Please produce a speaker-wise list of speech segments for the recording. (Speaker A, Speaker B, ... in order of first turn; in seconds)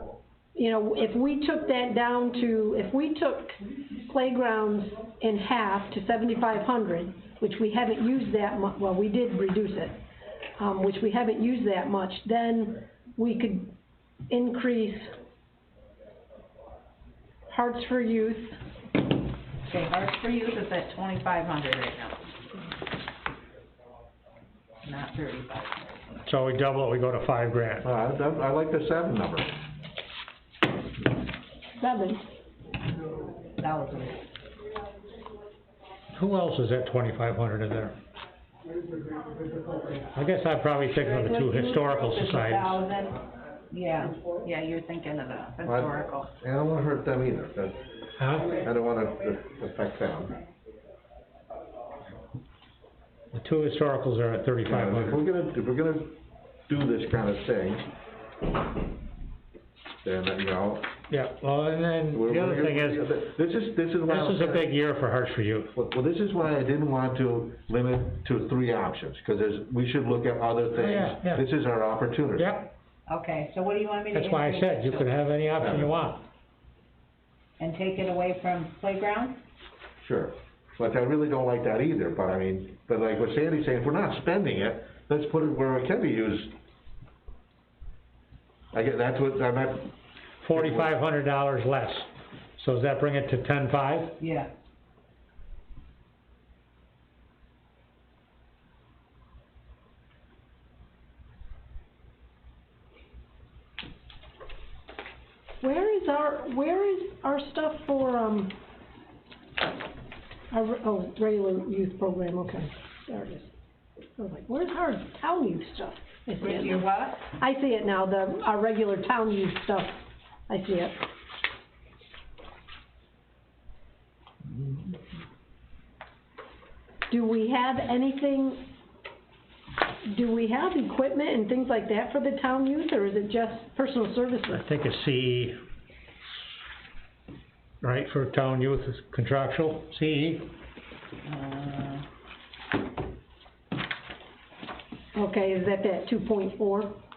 Speaker A: 0.5-10.0, 10.6-13.7, 14.3-15.1, 17.5-18.6, 31.8-32.2, 105.6-108.5, 110.5-113.5, 114.2-121.0, 127.1-128.6, 130.1-134.7, 145.1-146.9
Speaker B: 19.6-22.3, 24.8-25.8, 33.6-34.2, 40.9-46.3, 73.1-75.1, 77.6-79.4, 94.2-94.5, 116.4-117.3, 141.2-142.0
Speaker C: 26.2-27.9, 36.1-38.0, 40.1-42.8, 48.2-48.6, 53.3-55.2, 61.1-63.0, 64.0-65.7, 70.8-71.4, 72.4-72.7, 74.1-76.2, 90.4-94.2, 134.5-135.6, 137.8-140.5
Speaker D: 27.8-29.5, 45.6-47.8, 48.5-50.4, 54.6-57.9, 60.0-60.9, 62.1-64.7, 65.7-72.6, 75.6-75.9, 80.0-86.5, 88.7-89.9, 90.5-90.9